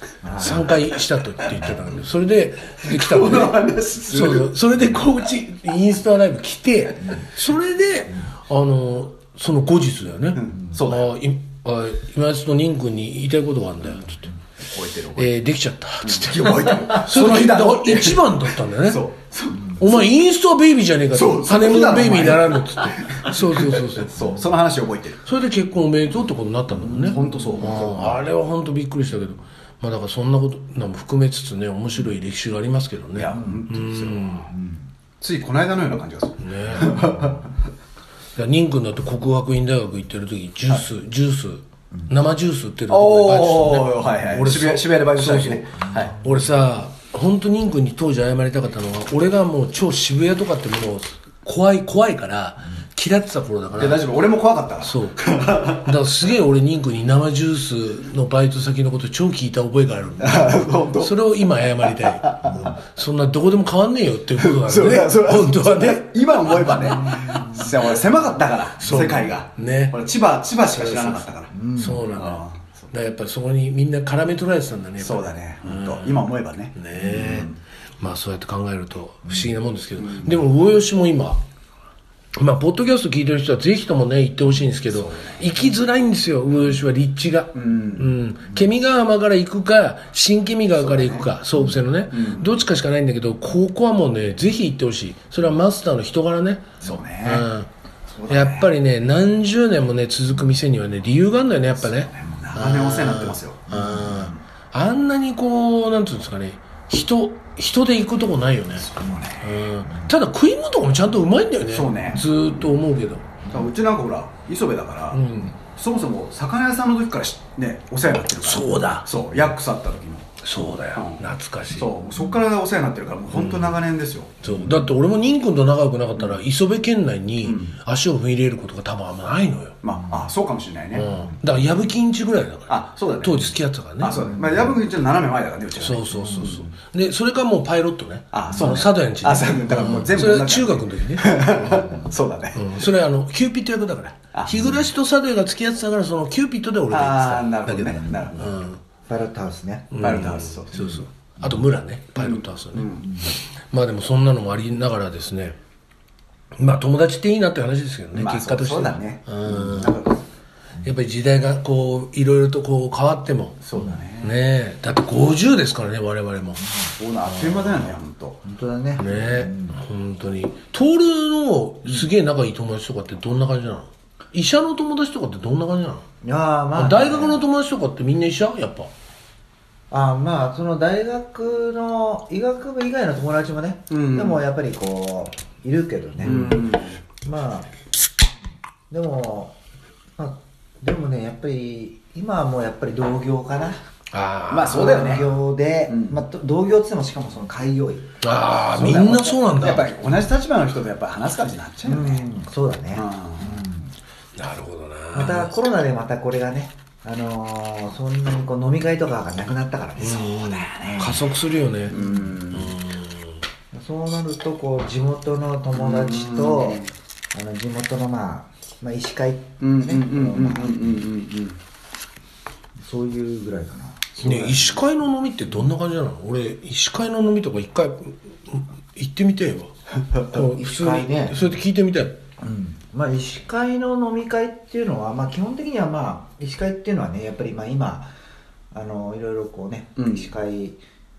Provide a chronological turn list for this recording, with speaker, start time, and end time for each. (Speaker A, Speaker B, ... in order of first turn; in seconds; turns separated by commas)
Speaker A: 0.2-0.8, Speaker B: 0.3-14.3, Speaker C: 2.8-4.5, Speaker C: 10.4-11.2, Speaker C: 14.6-15.3, Speaker B: 15.1-19.1, Speaker C: 16.0-20.1, Speaker B: 19.8-24.5, Speaker C: 21.1-25.2, Speaker B: 25.2-34.5, Speaker C: 26.9-28.2, Speaker A: 26.9-27.8, Speaker C: 33.1-34.3, Speaker A: 33.3-33.6, Speaker A: 34.5-34.9, Speaker C: 35.2-37.5, Speaker B: 36.4-37.2, Speaker A: 37.0-37.3, Speaker B: 38.4-54.1, Speaker C: 42.9-46.2, Speaker C: 53.8-55.9, Speaker B: 54.8-67.6, Speaker C: 60.2-61.1, Speaker C: 62.0-62.6, Speaker C: 64.4-72.8, Speaker A: 66.7-67.7, Speaker B: 68.8-70.0, Speaker B: 70.7-71.2, Speaker A: 71.5-72.1, Speaker B: 71.7-81.4, Speaker C: 75.0-77.6, Speaker C: 80.0-80.4, Speaker B: 82.3-97.7, Speaker C: 84.9-85.4, Speaker C: 87.5-88.2, Speaker C: 90.8-91.3, Speaker C: 92.1-92.5, Speaker C: 96.8-97.5, Speaker C: 98.1-98.7, Speaker B: 98.3-113.3, Speaker C: 102.1-103.7, Speaker A: 103.7-104.3, Speaker C: 108.9-109.5, Speaker C: 111.7-112.2, Speaker C: 113.5-120.3, Speaker B: 115.1-115.5, Speaker B: 118.4-119.5, Speaker B: 120.4-122.0, Speaker C: 120.9-124.5, Speaker B: 123.3-123.8, Speaker B: 124.4-129.8, Speaker C: 127.4-127.7, Speaker C: 129.8-131.2, Speaker A: 129.9-130.3, Speaker B: 130.9-134.3, Speaker A: 131.0-131.3, Speaker C: 132.7-136.6, Speaker A: 134.2-134.7, Speaker B: 135.8-141.8, Speaker A: 136.1-136.7, Speaker C: 138.3-142.7, Speaker A: 141.6-142.1, Speaker B: 142.5-148.8, Speaker C: 144.3-144.8, Speaker C: 146.9-148.6, Speaker A: 149.1-150.2, Speaker B: 149.9-152.9, Speaker C: 150.0-151.0, Speaker A: 151.4-151.7, Speaker C: 152.2-153.1, Speaker A: 153.0-153.4, Speaker B: 153.7-155.6, Speaker B: 156.6-160.0, Speaker C: 158.1-160.2, Speaker B: 160.8-163.6, Speaker C: 163.6-164.3, Speaker A: 163.8-164.3, Speaker B: 164.2-166.7, Speaker C: 167.0-168.4, Speaker B: 167.2-168.0, Speaker A: 168.4-169.8, Speaker B: 169.0-176.0, Speaker A: 176.2-177.4, Speaker B: 176.7-178.9, Speaker A: 179.9-186.6, Speaker C: 183.9-184.4, Speaker C: 186.2-187.0, Speaker B: 186.3-186.5, Speaker A: 187.2-187.7, Speaker A: 188.9-189.6, Speaker A: 190.2-193.8, Speaker B: 194.1-195.1, Speaker C: 194.5-195.3, Speaker A: 194.6-198.1, Speaker C: 195.9-196.2, Speaker B: 198.2-199.9, Speaker C: 198.6-202.2, Speaker A: 201.8-203.9, Speaker C: 202.9-203.6, Speaker B: 204.3-205.5, Speaker A: 205.1-211.3, Speaker B: 210.0-212.0, Speaker C: 210.1-210.5, Speaker C: 211.9-212.8, Speaker A: 211.9-212.3, Speaker B: 212.5-213.4, Speaker A: 213.7-221.1, Speaker C: 215.7-216.9, Speaker C: 219.6-221.6, Speaker A: 222.8-224.8, Speaker B: 224.2-232.2, Speaker A: 230.3-231.4, Speaker A: 232.4-238.1, Speaker A: 238.7-240.8, Speaker C: 240.0-240.3